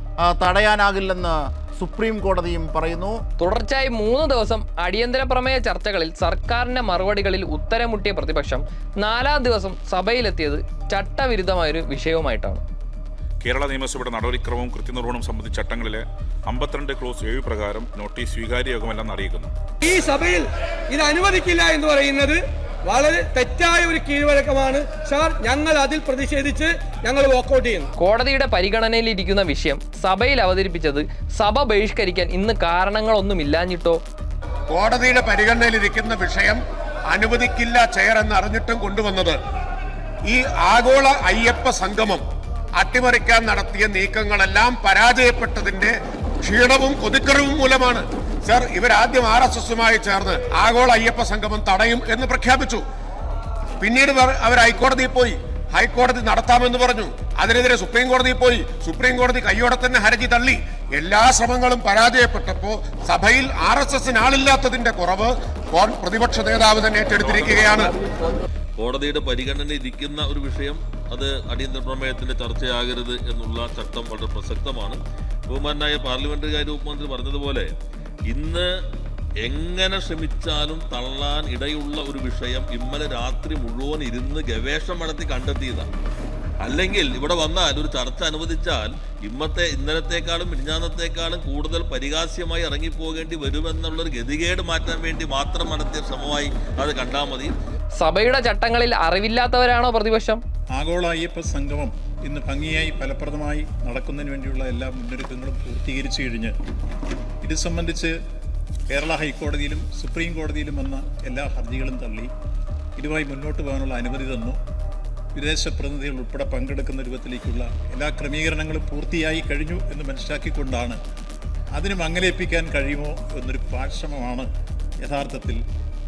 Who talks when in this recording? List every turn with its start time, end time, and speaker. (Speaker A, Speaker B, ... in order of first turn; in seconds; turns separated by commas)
Speaker A: 0.2-3.2, Speaker B: 3.4-12.6, Speaker C: 13.4-19.5, Speaker D: 19.8-27.9, Speaker B: 28.0-34.0, Speaker E: 34.7-36.6, Speaker E: 37.1-39.4, Speaker E: 40.3-42.2, Speaker E: 42.8-52.8, Speaker E: 53.8-67.9, Speaker F: 67.2-67.9, Speaker F: 68.8-75.0, Speaker F: 75.5-77.7, Speaker F: 78.3-78.7, Speaker F: 79.4-85.9, Speaker F: 86.6-97.5, Speaker B: 98.0-100.4, Speaker G: 100.8-106.5, Speaker G: 107.4-108.1, Speaker G: 108.9-112.3, Speaker G: 113.0-114.6, Speaker G: 115.4-121.0, Speaker G: 121.8-124.5, Speaker G: 125.1-125.6